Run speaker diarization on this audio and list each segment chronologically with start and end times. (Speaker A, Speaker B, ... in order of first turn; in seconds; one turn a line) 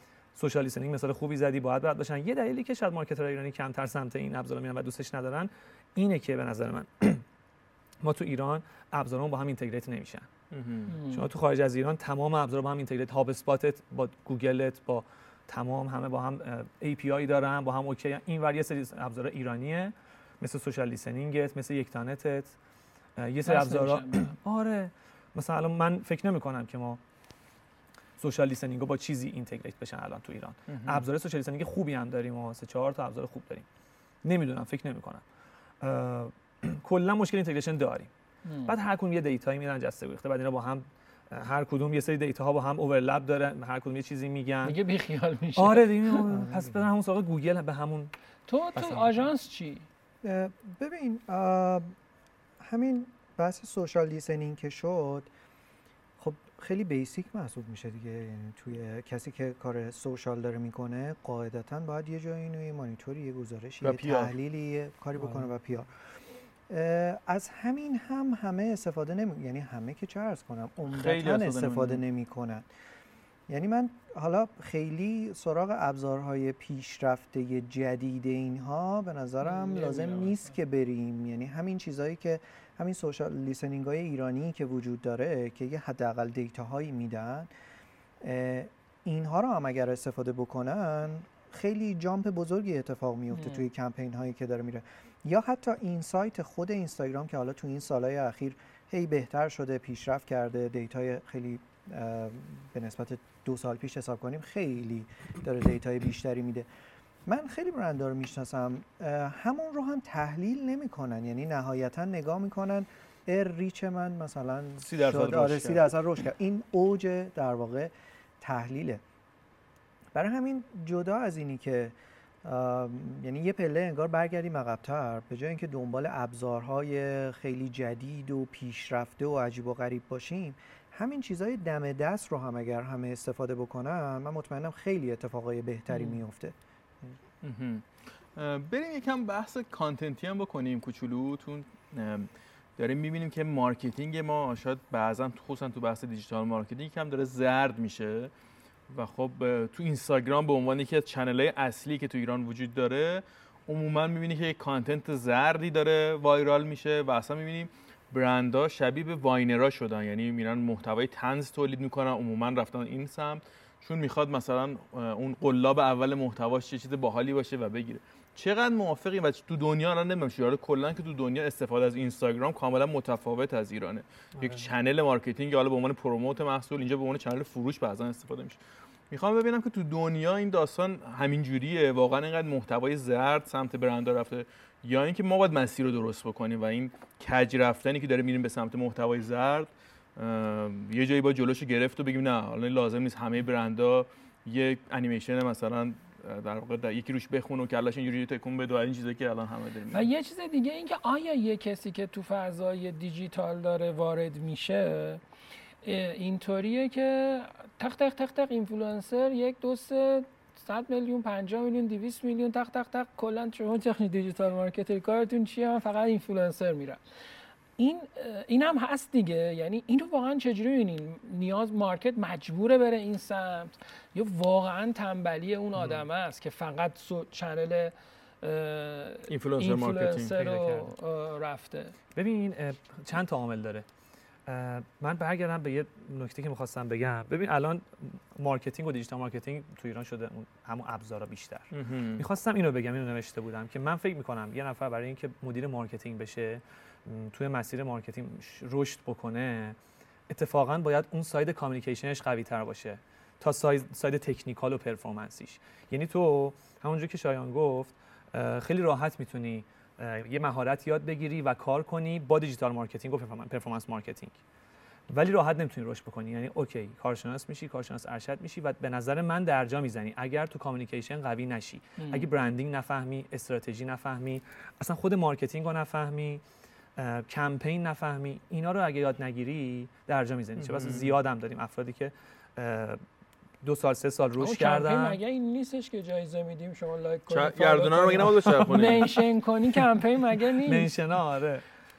Speaker A: 0.3-7.2
Speaker A: 8.0-10.3
Speaker B: 10.5-10.9
Speaker C: 10.9-11.3
Speaker A: 11.1-22.6
Speaker A: 23.2-27.0
Speaker C: 23.4-24.4
Speaker A: 28.2-33.7
Speaker B: 30.7-31.1
Speaker A: 34.2-35.2
Speaker A: 35.8-38.1
Speaker C: 38.5-38.8
Speaker A: 38.7-44.8
Speaker C: 44.6-46.3
Speaker A: 45.6-48.1
Speaker D: 46.3-46.9
Speaker C: 48.5-49.9
Speaker A: 48.8-49.2
Speaker D: 50.2-52.0
Speaker D: 52.6-55.3
Speaker D: 56.2-65.9
Speaker B: 63.8-64.3
Speaker D: 66.7-72.7
Speaker B: 70.9-72.0
Speaker D: 73.5-87.5
Speaker C: 79.4-80.5
Speaker D: 88.2-106.7
Speaker C: 93.3-93.7
Speaker D: 107.3-119.0
Speaker B: 114.8-115.9
Speaker D: 120.1-137.2
Speaker B: 137.4-148.3
Speaker B: 148.9-178.6
Speaker A: 174.4-174.7
Speaker B: 179.1-200.1
Speaker C: 199.9-205.2
Speaker C: 205.8-217.0
Speaker C: 217.8-232.0
Speaker B: 229.3-230.3
Speaker A: 230.4-230.9
Speaker A: 232.2-233.8
Speaker A: 234.5-249.8
Speaker B: 241.7-242.2
Speaker A: 250.3-264.4
Speaker A: 265.1-276.4
Speaker C: 272.0-272.3
Speaker A: 277.0-283.0
Speaker B: 280.6-281.1
Speaker A: 283.6-285.2
Speaker C: 284.4-290.9
Speaker B: 287.3-289.2
Speaker A: 288.3-288.9
Speaker A: 290.6-291.6